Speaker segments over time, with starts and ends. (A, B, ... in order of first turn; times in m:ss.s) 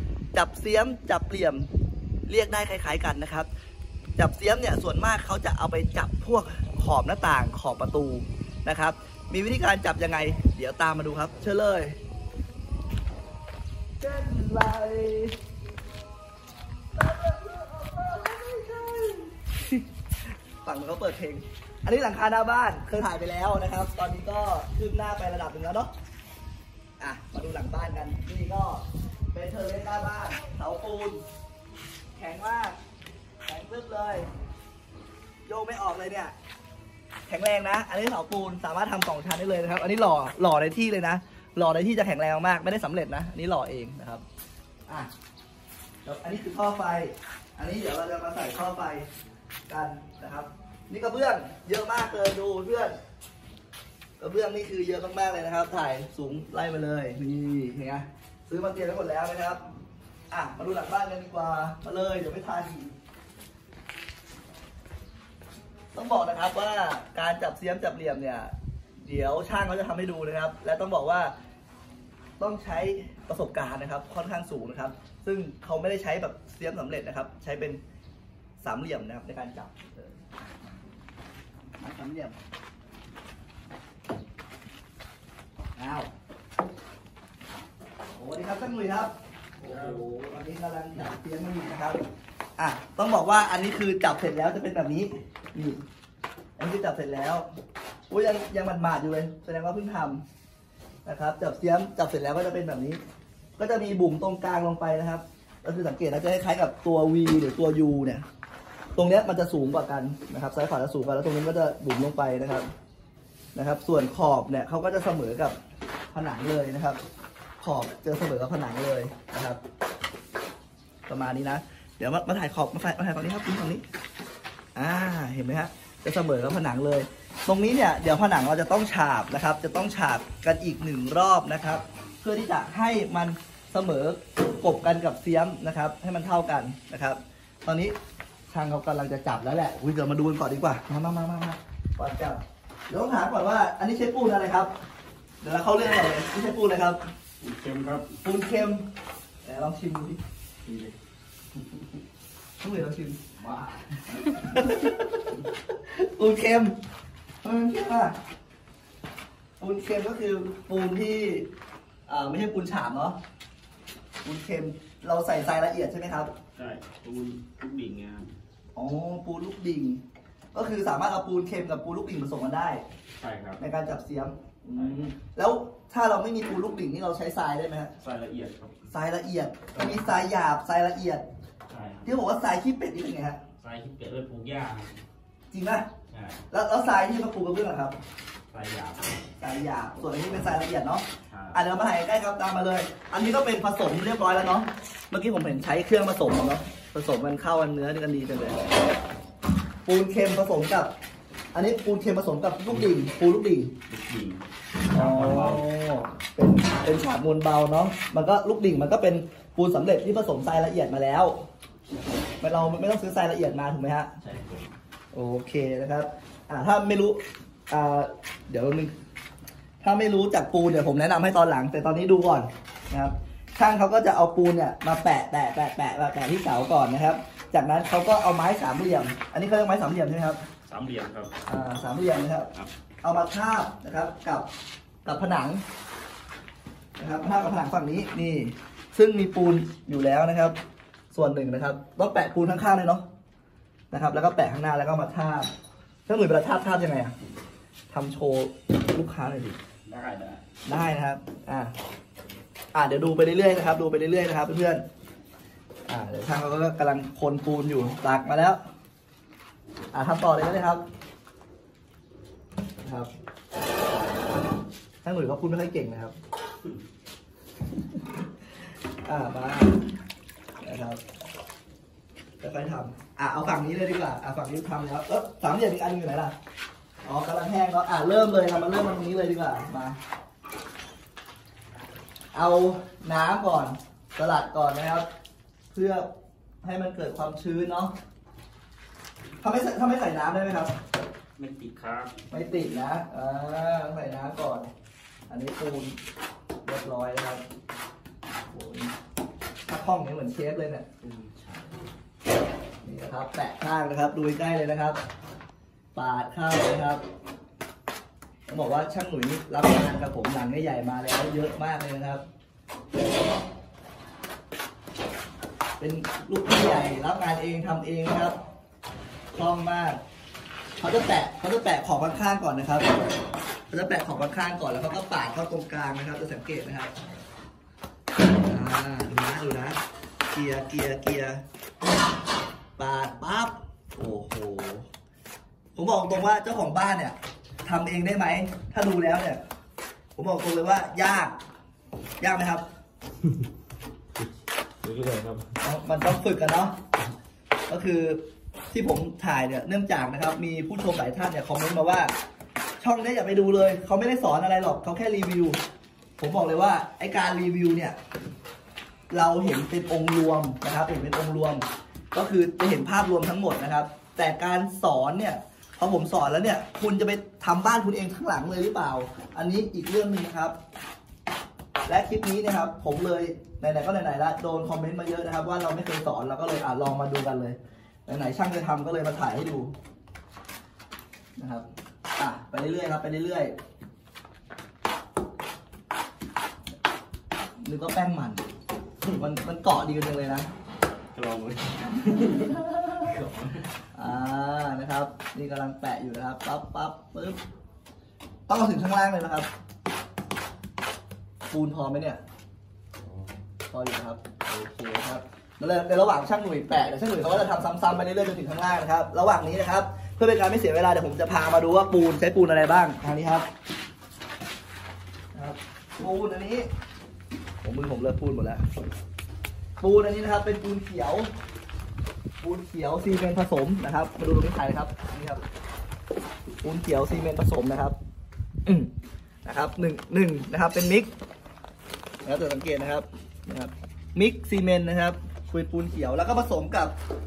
0:00.3-0:01.7 A
0:02.3-0:03.5 A
0:04.2-0:12.0 A
0:14.0-0:15.4 A
0:16.9-0:19.9 A
0:20.6-0:25.9 A
0:27.0-0:31.2 A
0:32.2-0:32.8 A
0:33.4-0:34.3 A
0:35.5-0:36.3 A
0:37.3-0:44.2 A
0:46.0-0:49.1 A
0:49.7-0:53.0 A
0:54.2-0:59.6 A
1:00.3-1:02.9 A
1:05.9-1:11.3 A
1:12.4-1:17.8 A
1:18.6-1:20.2 A
1:21.8-1:22.4 A
1:25.8-1:26.1 A
1:28.1-1:32.0 A
1:29.6-1:30.0 B
1:32.6-1:35.8 A
1:36.6-1:37.4 A
1:38.1-1:40.2 A
1:41.0-1:43.0 A
1:43.6-1:48.2 A
1:49.0-1:52.7 A
1:53.5-1:55.6 A
1:56.1-1:57.0 A
1:57.6-1:59.6 A
2:01.1-2:03.8 A
2:04.8-2:18.0 A
2:18.5-2:24.7 A
2:25.4-2:27.0 A
2:27.4-2:28.2 B
2:28.2-2:28.8 A
2:29.4-2:30.9 A
2:32.6-2:33.2 A
2:33.4-2:34.6 B
2:34.3-2:36.8 A
2:37.4-2:38.2 A
2:39.6-2:41.5 A
2:42.1-2:43.2 A
2:44.2-2:46.3 A
2:46.5-2:48.3 B
2:48.8-2:50.0 A
2:50.5-2:52.8 A
2:53.2-2:53.6 B
2:53.6-2:57.9 A
2:54.7-2:55.0 B
2:58.0-2:58.9 B
2:58.9-3:01.2 A
2:59.8-3:00.1 B
3:01.7-3:02.1 B
3:02.1-3:03.4 A
3:03.6-3:05.0 B
3:05.5-3:05.9 A
3:06.1-3:06.4 B
3:06.5-3:08.0 A
3:08.5-3:09.2 B
3:09.4-3:18.7 A
3:11.3-3:11.6 B
3:19.8-3:20.9 A
3:21.5-3:23.7 A
3:23.9-3:25.7 B
3:24.9-3:31.4 A
3:32.4-3:34.1 A
3:34.2-3:34.8 B
3:35.1-3:38.9 A
3:39.8-3:50.4 A
3:50.7-3:51.3 B
3:51.4-3:52.5 A
3:53.0-3:54.5 A
3:55.0-3:55.6 A
3:57.0-4:00.6 A
4:01.1-4:03.0 A
4:03.9-4:05.5 A
4:06.1-4:07.1 A
4:07.9-4:09.6 A
4:09.9-4:10.4 B
4:10.6-4:11.7 A
4:12.7-4:14.8 A
4:15.9-4:18.6 A
4:19.9-4:20.8 A
4:22.8-4:23.1 A
4:25.0-4:26.1 A
4:29.0-4:29.8 A
4:30.6-4:31.0 A
4:32.4-4:36.3 A
4:37.0-4:40.0 A
4:42.3-4:45.1 A
4:45.7-4:46.1 A
4:46.6-4:47.9 A
4:49.4-4:50.8 A
4:51.4-4:52.2 B
4:52.3-4:54.7 A
4:55.3-4:56.0 A
4:56.6-4:57.4 A
4:58.5-4:58.9 A
4:59.7-5:00.9 A
5:01.0-5:01.8 B
5:02.8-5:05.0 A
5:05.9-5:07.0 A
5:08.5-5:12.2 A
5:15.8-5:18.4 A
5:19.3-5:20.0 A
5:20.8-5:22.9 A
5:23.7-5:26.9 A
5:28.4-5:29.8 A
5:30.3-5:31.4 A
5:32.8-5:34.9 A
5:35.8-5:39.4 A
5:40.2-5:41.4 A
5:42.2-5:42.6 A
5:44.8-5:45.5 B
5:45.6-5:46.8 A
5:47.7-5:52.1 A
5:52.8-5:55.6 A
5:56.2-5:58.0 A
5:59.1-6:10.6 A
6:11.9-6:19.7 A
6:21.4-6:21.6 A
6:22.2-6:23.5 A
6:27.6-6:28.4 A
6:29.0-6:30.5 A
6:31.1-6:33.7 B
6:32.2-6:33.0 A
6:33.9-6:37.4 A
6:38.5-6:39.5 A
6:41.5-6:42.2 A
6:43.7-6:53.4 A
6:55.3-6:56.7 A
6:57.6-6:58.6 A
6:59.8-7:01.3 A
7:02.4-7:05.4 A
7:06.6-7:08.0 A
7:08.6-7:08.9 A
7:09.4-7:11.1 A
7:12.2-7:16.9 A